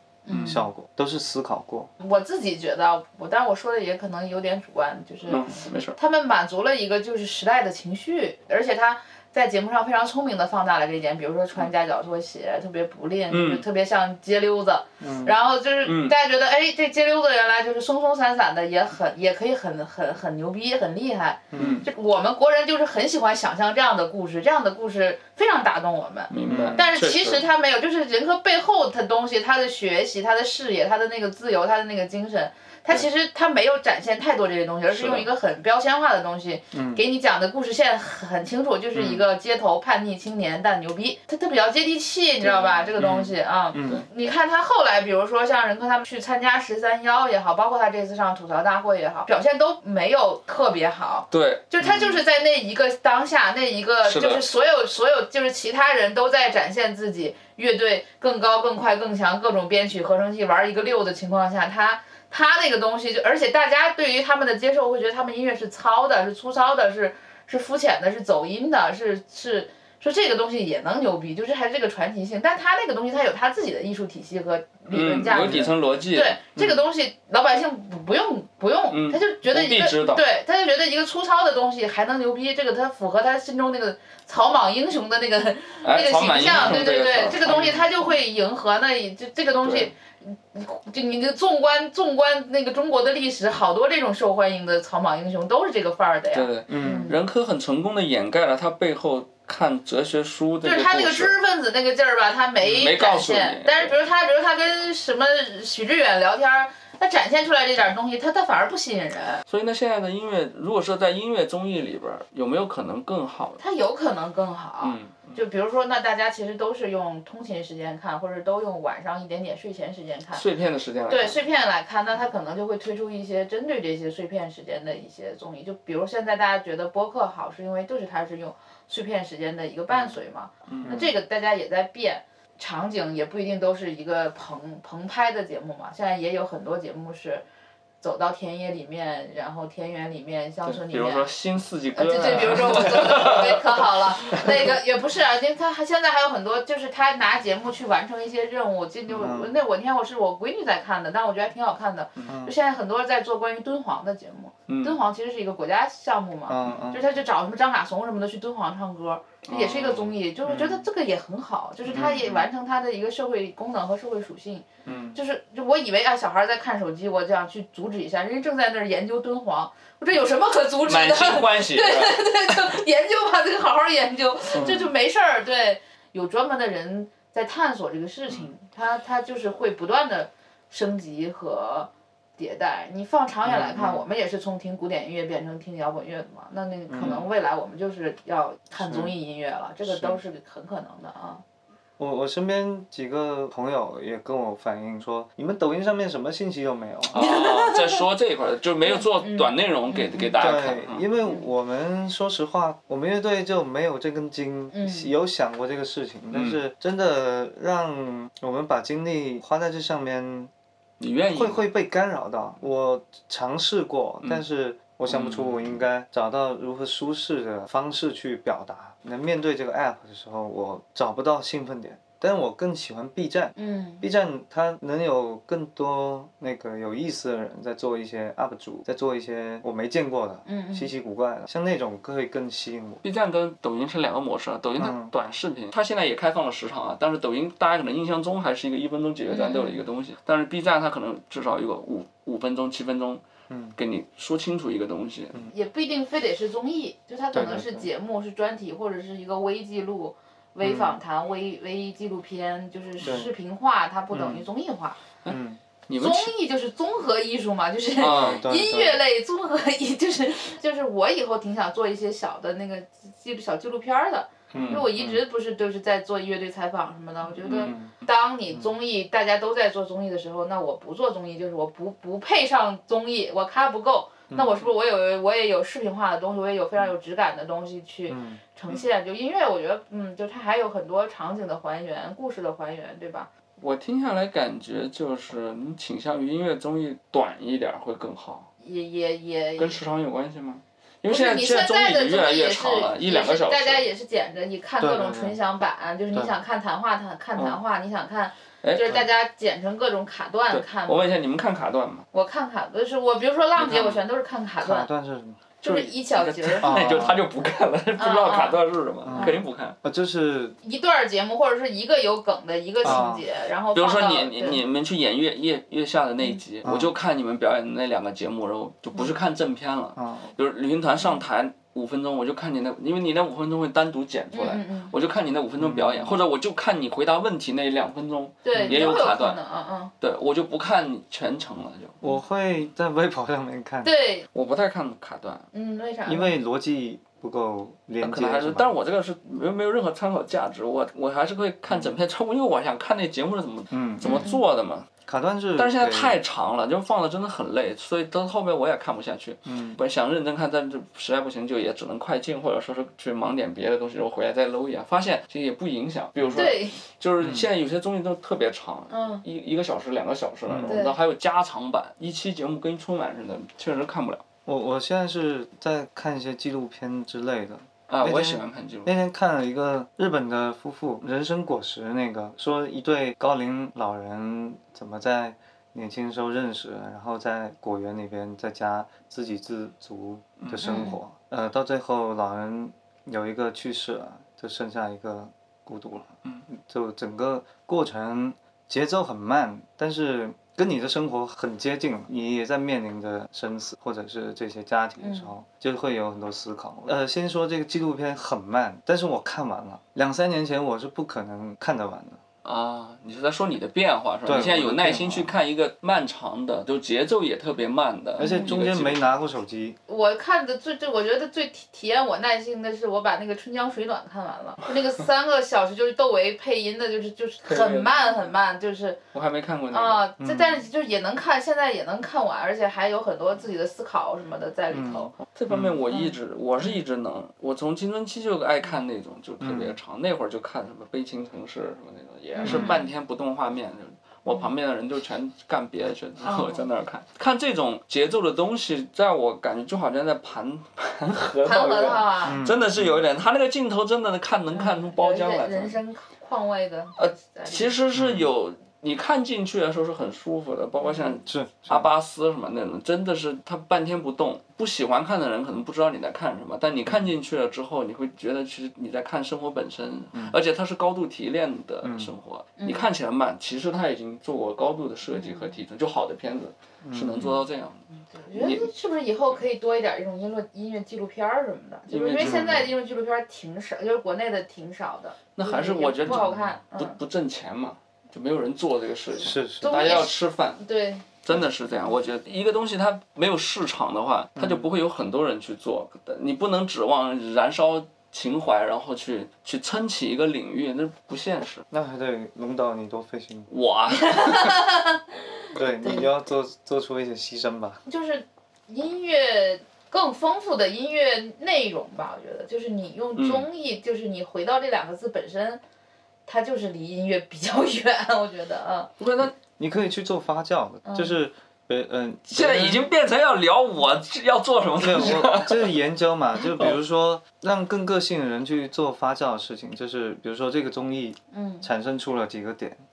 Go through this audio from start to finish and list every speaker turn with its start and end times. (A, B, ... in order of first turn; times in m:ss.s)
0:00.2-0:00.6 A
0:00.3-0:00.6 B
0:00.4-0:01.9 C
0:02.0-1:37.2 A
0:05.2-0:06.0 B
0:13.3-0:13.6 B
0:15.0-0:15.3 C
0:15.8-0:16.1 B
0:21.5-0:21.8 C
0:21.6-0:21.8 B
0:26.3-0:27.4 B
0:26.5-0:26.8 C
0:34.9-0:35.3 B
0:36.7-0:37.0 C
0:39.0-0:39.2 C
0:42.4-0:44.0 B
0:43.7-0:44.0 C
0:51.3-0:51.7 B
0:51.8-0:52.1 C
0:54.0-0:54.4 B
1:14.9-1:16.4 B
1:15.3-1:15.7 C
1:18.9-1:20.2 B
1:25.8-1:27.8 B
1:27.5-1:27.8 C
1:29.6-1:29.9 B
1:36.3-1:41.4 B
1:36.7-1:37.1 C
1:40.6-1:49.4 A
1:42.6-1:44.0 B
1:49.5-1:53.6 B
1:53.6-2:00.4 A
1:54.8-1:55.4 B
2:00.3-2:01.4 B
2:01.1-2:17.4 A
2:10.7-2:11.0 B
2:10.8-2:11.1 C
2:18.0-2:21.3 A
2:20.6-2:24.8 B
2:21.9-3:11.4 A
2:29.1-2:29.6 C
2:32.2-2:32.5 C
2:34.7-2:35.0 B
2:36.5-2:37.0 C
2:39.5-2:40.1 B
2:40.4-2:40.8 C
2:41.9-2:42.4 C
2:42.0-2:42.3 B
2:44.8-2:45.2 C
2:50.8-2:52.8 B
2:54.5-2:54.8 B
2:54.5-2:54.9 C
3:03.5-3:04.0 C
3:06.9-3:07.2 C
3:08.8-3:09.1 C
3:09.9-3:10.2 C
3:12.0-3:17.2 C
3:17.1-3:21.0 B
3:17.2-3:18.0 A
3:18.8-3:20.5 A
3:20.3-3:30.5 C
3:24.7-3:25.1 A
3:26.3-3:26.6 B
3:31.0-3:31.6 B
3:31.3-3:53.0 C
3:35.1-3:35.8 B
3:43.6-3:44.0 A
3:50.4-3:50.9 A
3:53.0-4:03.2 B
3:54.8-3:55.1 C
3:59.3-3:59.8 A
4:03.5-4:03.8 C
4:03.8-4:05.4 B
4:05.5-4:15.0 A
4:07.3-4:07.9 C
4:10.6-4:11.0 C
4:13.0-4:13.3 C
4:14.1-4:14.4 C
4:15.2-4:16.3 B
4:15.3-4:15.6 C
4:16.0-4:43.3 A
4:18.0-4:18.4 B
4:18.0-4:19.0 C
4:24.5-4:25.2 C
4:24.5-4:24.9 B
4:27.4-4:27.7 B
4:27.5-4:27.9 C
4:34.3-4:34.6 C
4:38.1-4:38.4 C
4:43.6-4:48.5 B
4:48.6-4:49.8 A
4:49.6-4:53.8 B
4:51.1-5:01.1 A
4:54.8-4:55.4 C
4:58.6-4:59.0 B
5:00.5-5:02.1 B
5:02.1-5:04.9 A
5:03.6-5:04.0 B
5:04.6-5:05.4 C
5:05.6-5:07.0 A
5:05.6-5:09.8 B
5:06.6-5:07.3 C
5:08.0-5:09.4 A
5:09.0-5:10.6 C
5:10.6-5:14.6 A
5:12.8-5:13.2 C
5:13.7-5:29.4 B
5:16.6-5:16.9 C
5:20.0-5:20.3 C
5:24.3-5:24.9 A
5:25.6-5:26.2 C
5:28.4-5:29.9 A
5:28.5-5:28.9 C
5:30.0-5:32.0 B
5:32.0-5:33.9 C
5:33.8-5:34.3 A
5:34.3-5:35.5 B
5:35.5-5:36.3 A
5:36.0-5:38.7 C
5:38.0-5:44.9 B
5:41.7-5:42.0 C
5:43.7-5:44.2 C
5:44.0-5:44.4 A
5:45.0-5:46.2 C
5:45.6-6:04.2 B
5:49.4-5:49.8 C
5:56.2-5:56.5 C
5:56.3-5:56.8 A
5:57.2-5:57.5 C
5:58.9-5:59.2 A
6:00.5-6:00.8 C
6:00.6-6:01.0 A
6:04.4-6:42.2 C
6:07.9-6:08.9 B
6:20.4-6:20.9 B
6:20.6-6:21.0 A
6:35.0-6:35.3 A
6:42.4-6:49.1 B
6:44.2-6:45.3 C
6:48.2-6:48.5 A
6:48.2-6:49.8 C
6:49.9-6:59.0 A
6:57.4-6:58.3 B
6:59.1-7:00.0 B
6:59.7-7:05.1 A
7:00.2-7:00.6 C
7:04.7-7:05.8 C
7:05.3-7:25.8 B
7:05.9-7:06.8 A
7:09.4-7:09.8 C
7:12.4-7:12.9 A
7:12.4-7:12.8 C
7:16.2-7:16.7 A
7:21.4-7:22.4 A
7:22.2-7:23.0 C
7:24.5-7:27.7 A
7:27.0-7:47.8 B
7:27.9-7:28.3 C
7:30.8-7:31.1 A
7:31.2-7:31.9 C
7:41.8-7:42.1 C
7:42.6-7:42.9 A
7:45.1-7:45.5 A
7:46.8-7:47.3 C
7:48.0-7:57.0 A
7:48.3-7:48.7 B
7:51.9-7:52.6 B
7:52.2-7:52.7 C
7:55.4-8:00.6 B
7:56.0-7:56.5 C
7:59.1-7:59.7 C
7:59.6-8:01.1 A
8:01.2-8:11.6 B
8:04.4-8:04.7 C
8:11.7-8:13.5 C
8:13.5-8:14.6 B
8:14.0-8:15.0 A
8:15.5-8:17.8 C
8:15.8-8:16.1 A
8:17.9-8:25.6 A
8:23.2-8:23.5 B
8:26.2-8:28.9 A
8:29.0-8:29.3 B
8:29.4-8:32.9 C
8:30.8-8:31.1 A
8:32.3-8:35.7 B
8:34.8-8:42.8 C
8:36.5-8:36.8 B
8:41.3-8:41.7 A